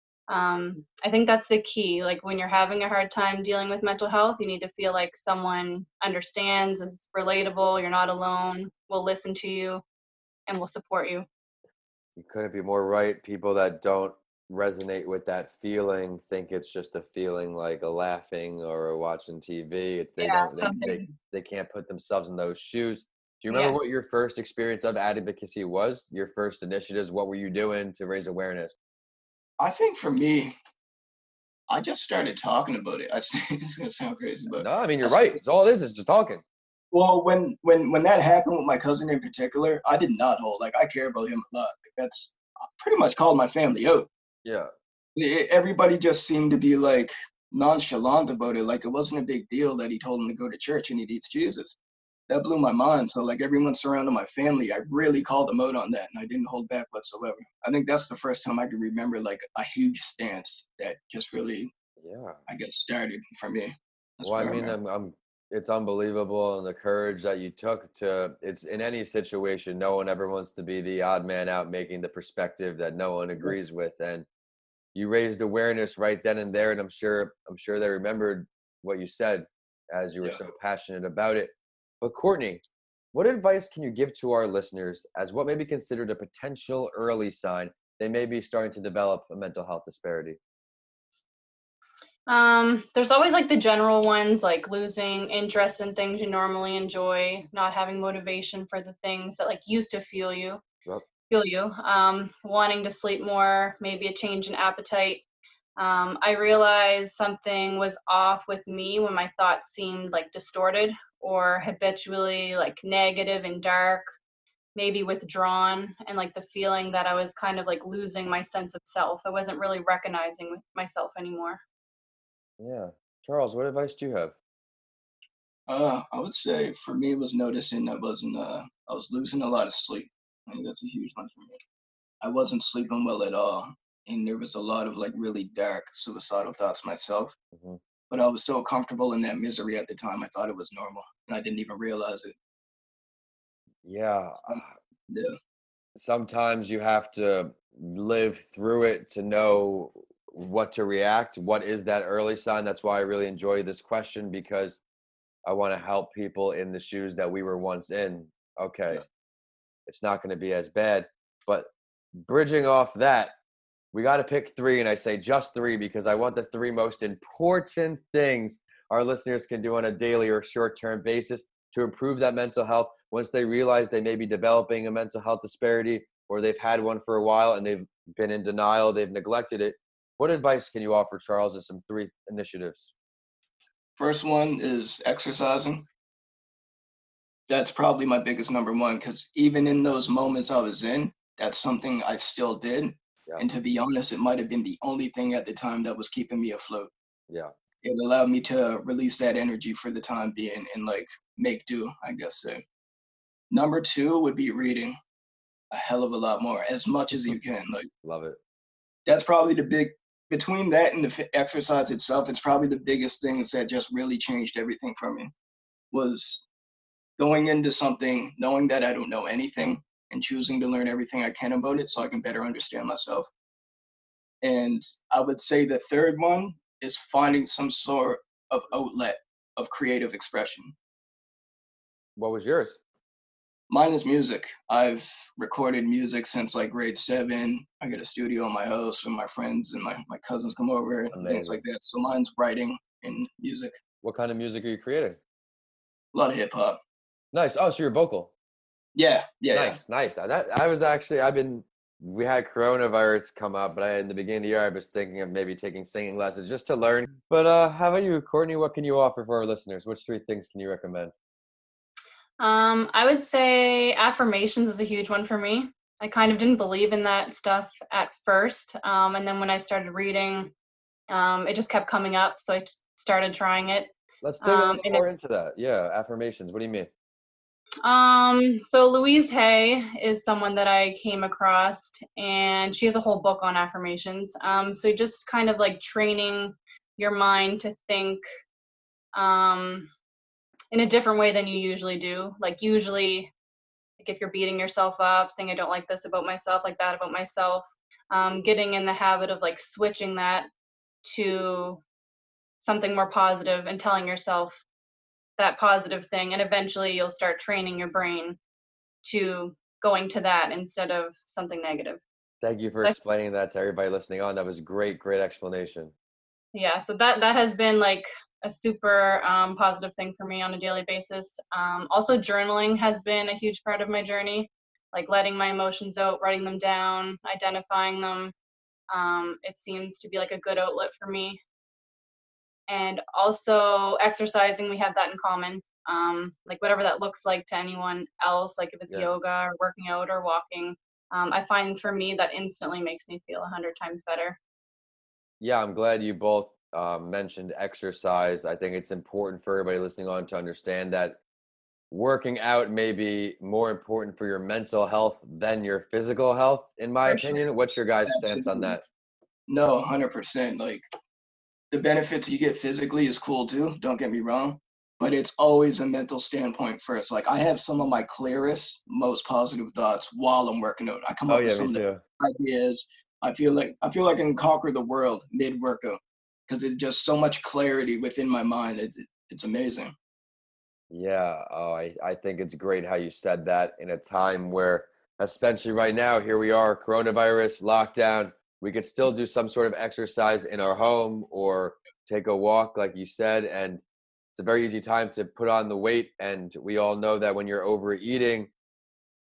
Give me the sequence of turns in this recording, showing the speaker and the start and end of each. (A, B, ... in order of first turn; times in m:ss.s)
0:00.3-0:09.8 A
0:10.5-0:11.3 A
0:12.2-0:28.8 B
0:20.2-0:21.1 A
0:23.5-0:23.8 A
0:29.6-0:30.5 C
0:31.7-0:35.4 C
0:34.6-0:36.4 B
0:36.9-0:44.1 C
0:44.4-0:44.7 B
0:45.2-0:51.8 C
0:52.3-1:01.7 C
1:02.0-1:02.4 B
1:02.5-1:04.8 C
1:04.2-1:14.3 B
1:14.9-1:30.4 B
1:32.3-1:40.6 A
1:41.3-1:45.2 A
1:45.8-1:54.1 A
1:54.7-2:01.6 A
2:02.6-2:04.3 B
2:05.7-2:11.6 C
2:12.2-2:17.4 C
2:17.5-2:17.8 B
2:18.1-2:22.3 C
2:23.8-2:24.7 B
2:24.4-2:25.3 C
2:26.0-2:34.8 B
2:35.4-2:39.0 B
2:39.9-2:43.3 B
2:43.9-3:02.9 B
3:04.0-3:05.8 C
3:07.5-3:16.9 C
3:17.8-3:22.6 C
3:23.5-3:25.0 C
3:25.7-3:27.9 C
3:28.0-3:28.4 B
3:29.0-3:35.3 C
3:35.9-3:36.4 C
3:37.2-3:43.3 C
3:44.4-3:50.7 C
3:52.2-3:52.8 B
3:53.7-4:03.7 C
4:01.1-4:01.6 B
4:04.0-4:05.2 B
4:06.1-4:06.8 C
4:07.3-4:08.3 B
4:08.9-4:09.8 C
4:09.5-4:21.1 B
4:22.4-4:30.5 A
4:31.1-4:35.0 A
4:34.2-4:36.9 B
4:37.8-4:48.2 A
4:49.1-4:49.9 A
4:50.7-4:53.3 A
4:54.0-5:00.5 A
5:01.0-5:01.8 A
5:02.6-5:04.6 A
5:05.4-5:08.4 A
5:09.0-5:12.0 A
5:12.4-5:15.9 B
5:16.5-5:28.3 A
5:28.9-5:31.4 A
5:32.7-5:44.4 A
5:45.4-5:51.2 B
5:51.9-5:58.8 B
5:57.0-5:57.4 C
5:58.0-5:58.8 C
5:59.5-6:00.8 C
6:01.7-6:19.9 C
6:11.3-6:12.0 B
6:20.9-6:33.8 B
6:34.3-6:38.5 B